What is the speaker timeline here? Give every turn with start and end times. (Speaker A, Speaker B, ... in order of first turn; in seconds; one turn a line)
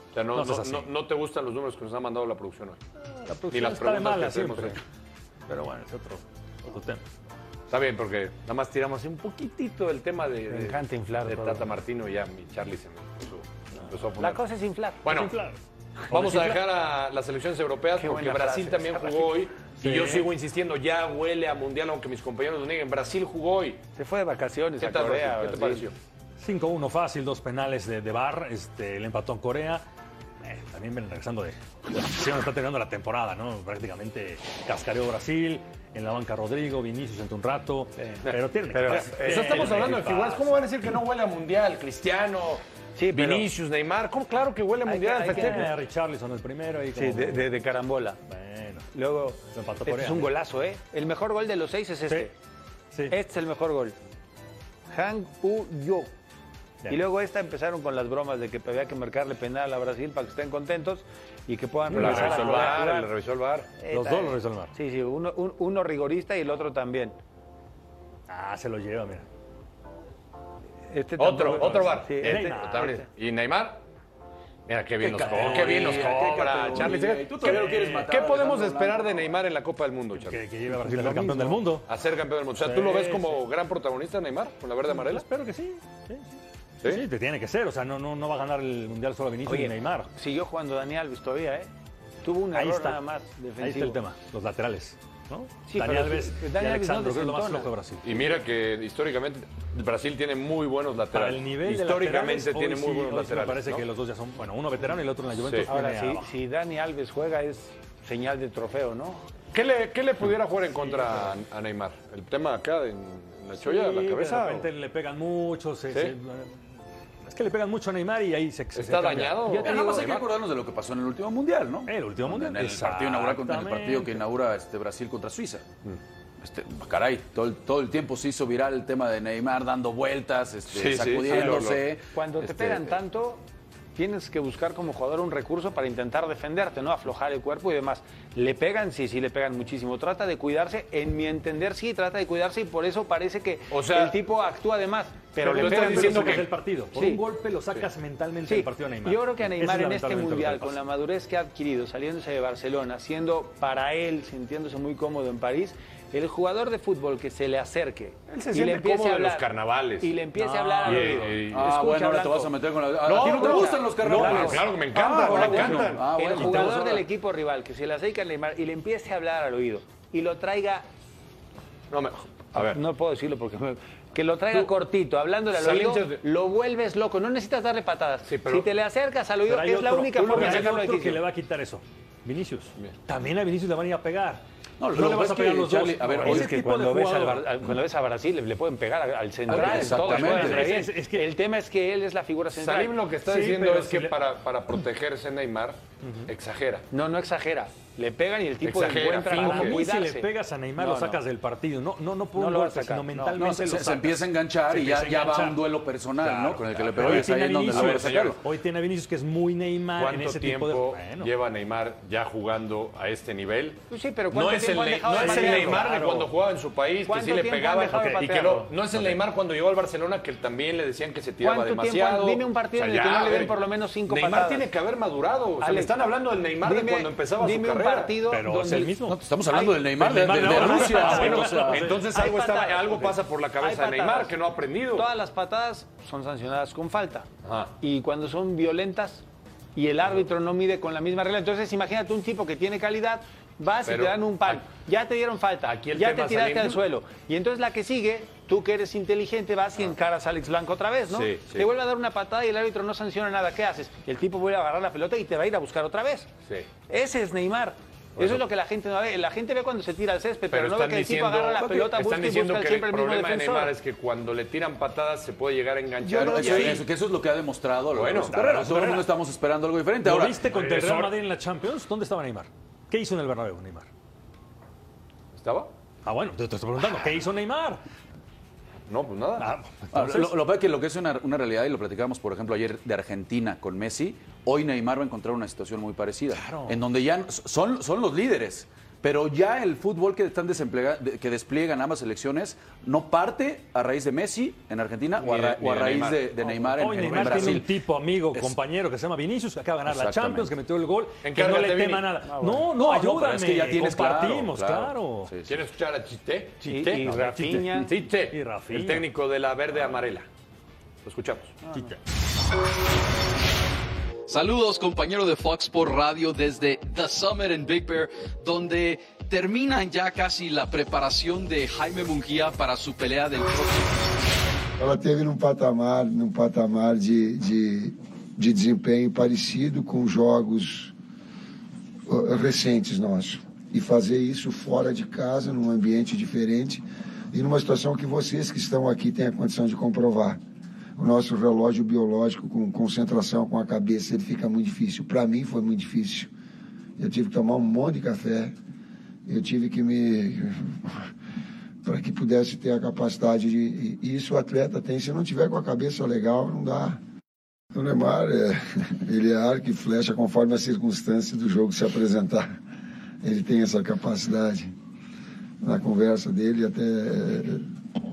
Speaker A: 0.1-2.8
Speaker B: 0.3-0.9
Speaker B: 3.0-4.8
Speaker A: 3.5-4.8
Speaker B: 5.5-7.0
Speaker A: 7.7-14.4
Speaker C: 10.5-11.8
Speaker C: 14.2-15.0
Speaker A: 15.0-15.3
Speaker B: 15.1-15.6
Speaker C: 16.1-16.6
Speaker A: 16.1-23.8
Speaker C: 18.0-19.4
Speaker B: 19.8-20.3
Speaker C: 24.0-25.9
Speaker A: 24.8-25.9
Speaker B: 26.4-29.8
Speaker B: 30.4-40.5
Speaker C: 38.0-39.9
Speaker A: 38.2-45.7
Speaker C: 43.0-43.5
Speaker C: 44.8-45.7
Speaker B: 45.3-47.5
Speaker C: 47.0-48.2
Speaker B: 48.3-48.9
Speaker C: 48.9-52.3
Speaker B: 49.5-50.3
Speaker C: 53.1-54.0
Speaker C: 54.9-56.1
Speaker C: 56.9-63.1
Speaker B: 61.9-62.8
Speaker A: 61.9-63.7
Speaker C: 63.8-67.2
Speaker B: 63.9-64.7
Speaker B: 68.3-69.2
Speaker C: 70.9-73.0
Speaker A: 71.2-73.8
Speaker B: 71.7-73.0
Speaker A: 74.7-80.4
Speaker D: 75.0-79.3
Speaker B: 75.2-78.1
Speaker B: 80.2-81.9
Speaker C: 80.8-81.6
Speaker A: 81.9-85.2
Speaker B: 82.6-83.4
Speaker B: 84.9-90.1
Speaker C: 89.5-91.7
Speaker C: 92.2-94.0
Speaker B: 92.5-93.0
Speaker B: 93.6-98.3
Speaker C: 95.7-97.7
Speaker A: 98.0-103.8
Speaker B: 101.1-106.3
Speaker A: 105.4-105.7
Speaker C: 105.7-109.2
Speaker A: 109.5-114.7
Speaker B: 110.8-111.3
Speaker B: 113.6-116.6
Speaker B: 117.3-119.7
Speaker A: 118.7-120.2
Speaker C: 119.5-120.1
Speaker D: 119.6-125.6
Speaker B: 121.9-124.2
Speaker D: 126.4-132.9
Speaker A: 130.7-131.8
Speaker C: 132.1-133.4
Speaker C: 133.9-147.2
Speaker A: 143.7-144.2
Speaker B: 145.4-150.8
Speaker A: 145.5-146.5
Speaker C: 148.4-159.4
Speaker A: 158.5-160.1
Speaker C: 160.0-162.6
Speaker B: 160.4-161.4
Speaker A: 160.8-161.7
Speaker D: 161.5-167.0
Speaker A: 163.0-166.7
Speaker C: 163.1-170.8
Speaker B: 166.4-166.7
Speaker A: 171.9-172.8
Speaker C: 172.6-181.2
Speaker A: 175.5-176.2
Speaker A: 178.3-178.7
Speaker B: 179.5-187.5
Speaker A: 180.2-180.7
Speaker D: 184.8-186.6
Speaker C: 186.2-193.1
Speaker D: 189.5-190.8
Speaker B: 189.5-191.3
Speaker A: 192.5-196.8
Speaker B: 193.3-194.1
Speaker B: 196.0-196.3
Speaker C: 196.9-201.2
Speaker A: 198.6-199.8
Speaker B: 199.3-205.6
Speaker C: 202.3-203.4
Speaker D: 203.3-208.4
Speaker B: 206.2-211.3
Speaker A: 206.9-208.4
Speaker A: 210.0-228.1
Speaker C: 213.9-216.3
Speaker B: 215.1-216.0
Speaker C: 217.1-218.8
Speaker B: 217.9-218.2
Speaker C: 221.4-224.7
Speaker C: 225.6-226.0
Speaker C: 226.6-229.0
Speaker B: 228.3-229.2
Speaker D: 229.0-232.0
Speaker C: 229.5-229.8
Speaker B: 229.9-232.0
Speaker A: 230.2-235.1
Speaker C: 230.5-231.2
Speaker C: 231.9-234.3
Speaker C: 234.9-237.3
Speaker A: 237.4-237.7
Speaker C: 237.8-239.2
Speaker C: 239.7-256.3
Speaker A: 243.8-244.7
Speaker A: 245.7-246.8
Speaker A: 251.1-251.7
Speaker C: 256.9-263.7
Speaker A: 258.2-258.4
Speaker A: 260.5-266.9
Speaker C: 266.0-266.8
Speaker D: 266.1-270.4
Speaker A: 267.9-268.3
Speaker B: 268.3-269.1
Speaker B: 270.0-273.9
Speaker A: 270.4-271.1
Speaker A: 275.3-275.7
Speaker B: 276.0-277.8
Speaker A: 278.9-279.5
Speaker B: 279.4-280.3
Speaker D: 279.9-297.7
Speaker B: 286.3-286.8
Speaker A: 295.2-296.2
Speaker B: 296.8-305.3
Speaker A: 297.0-297.6
Speaker D: 299.9-300.5
Speaker A: 301.2-302.1
Speaker C: 302.2-302.7
Speaker D: 302.7-305.6
Speaker A: 305.4-310.3
Speaker C: 306.6-307.9
Speaker B: 306.6-309.1
Speaker A: 311.0-311.6
Speaker C: 311.6-311.9
Speaker E: 314.3-324.0
Speaker F: 324.8-330.9
Speaker F: 332.1-340.4
Speaker F: 341.0-346.3
Speaker F: 347.0-348.6
Speaker F: 349.2-351.1
Speaker F: 351.8-357.0
Speaker F: 357.7-362.6
Speaker F: 363.2-364.7
Speaker F: 365.6-367.7